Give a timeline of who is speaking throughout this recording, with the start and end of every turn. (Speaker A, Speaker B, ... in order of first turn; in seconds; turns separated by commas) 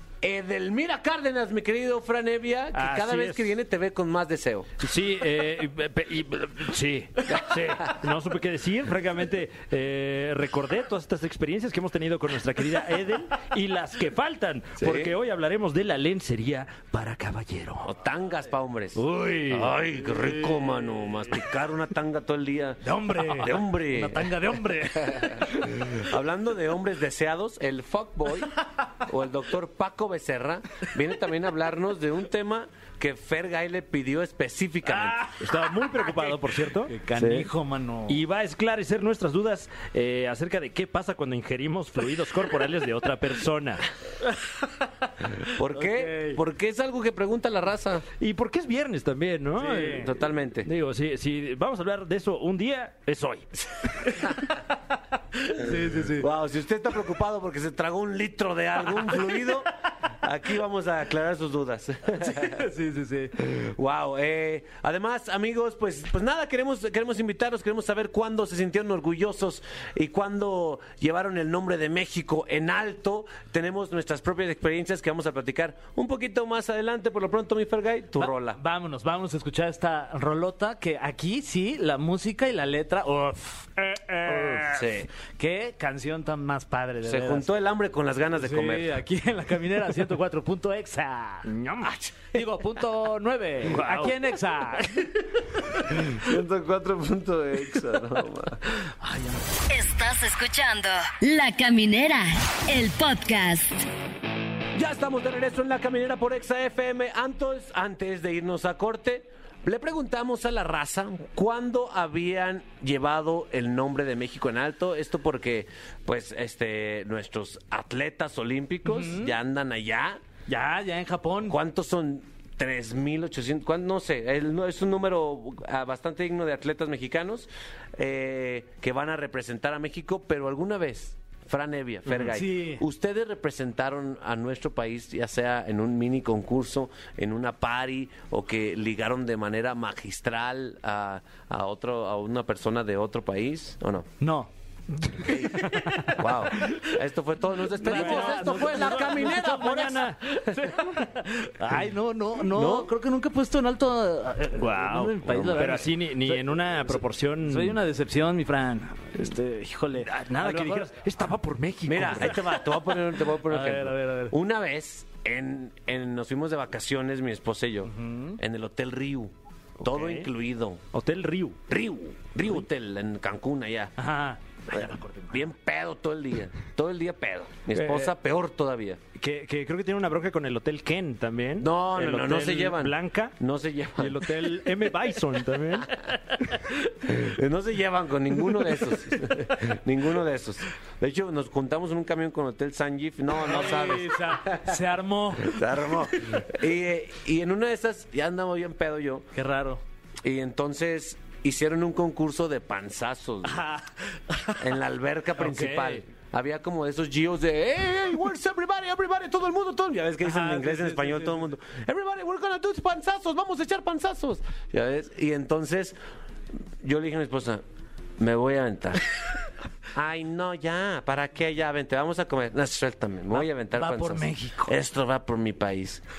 Speaker A: 0.2-4.7, Speaker B: 2.7-3.5, Speaker B: 4.8-17.9, Speaker A: 7.3-8.0, Speaker A: 14.8-15.1, Speaker A: 17.8-35.3, Speaker B: 19.0-19.8, Speaker C: 20.1-20.4, Speaker C: 22.8-25.7, Speaker B: 35.4-36.9, Speaker C: 36.9-38.2, Speaker A: 37.1-37.5, Speaker B: 38.1-43.9, Speaker A: 45.5-48.1, Speaker C: 45.7-46.4, Speaker B: 48.2-50.1, Speaker C: 49.6-50.1, Speaker A: 49.9-50.7, Speaker B: 50.6-54.1, Speaker C: 55.4-56.3, Speaker A: 55.8-62.6, Speaker C: 62.1-63.4, Speaker A: 63.4-78.6, Speaker C: 78.2-87.5, Speaker B: 83.9-84.6, Speaker A: 84.6-85.1, Speaker A: 87.0-89.0, Speaker C: 88.4-91.5, Speaker B: 91.5-92.3, Speaker C: 92.3-95.1, Speaker A: 93.7-94.1, Speaker B: 93.7-94.1, Speaker A: 96.1-98.6, Speaker C: 99.0-99.5, Speaker D: 99.7-103.9, Speaker A: 104.8-120.2, Speaker C: 118.8-119.3, Speaker C: 120.5-121.6, Speaker A: 121.5-144.1, Speaker C: 132.2-132.8, Speaker C: 144.2-144.5, Speaker B: 145.1-146.1, Speaker A: 145.2-150.1, Speaker C: 147.8-149.7, Speaker B: 147.8-150.9, Speaker C: 150.3-160.9, Speaker A: 152.4-152.9, Speaker B: 154.6-157.8, Speaker B: 160.0-162.6, Speaker A: 161.9-170.8, Speaker C: 162.3-162.6, Speaker C: 163.2-164.3, Speaker C: 167.9-168.4, Speaker B: 169.8-170.3, Speaker B: 170.9-171.6, Speaker A: 171.7-173.9, Speaker C: 174.0-175.5, Speaker A: 174.7-179.0, Speaker B: 177.7-178.1, Speaker B: 179.2-183.3, Speaker A: 181.6-184.6, Speaker B: 184.0-186.8, Speaker A: 187.1-194.8, Speaker C: 193.4-196.3, Speaker A: 195.4-199.3, Speaker C: 199.3-199.8, Speaker A: 200.2-203.6, Speaker C: 203.4-204.6, Speaker A: 204.6-216.0, Speaker B: 205.4-206.0, Speaker C: 210.2-211.5, Speaker A: 216.8-217.6, Speaker A: 218.2-219.0, Speaker A: 219.9-226.0, Speaker C: 223.3-224.8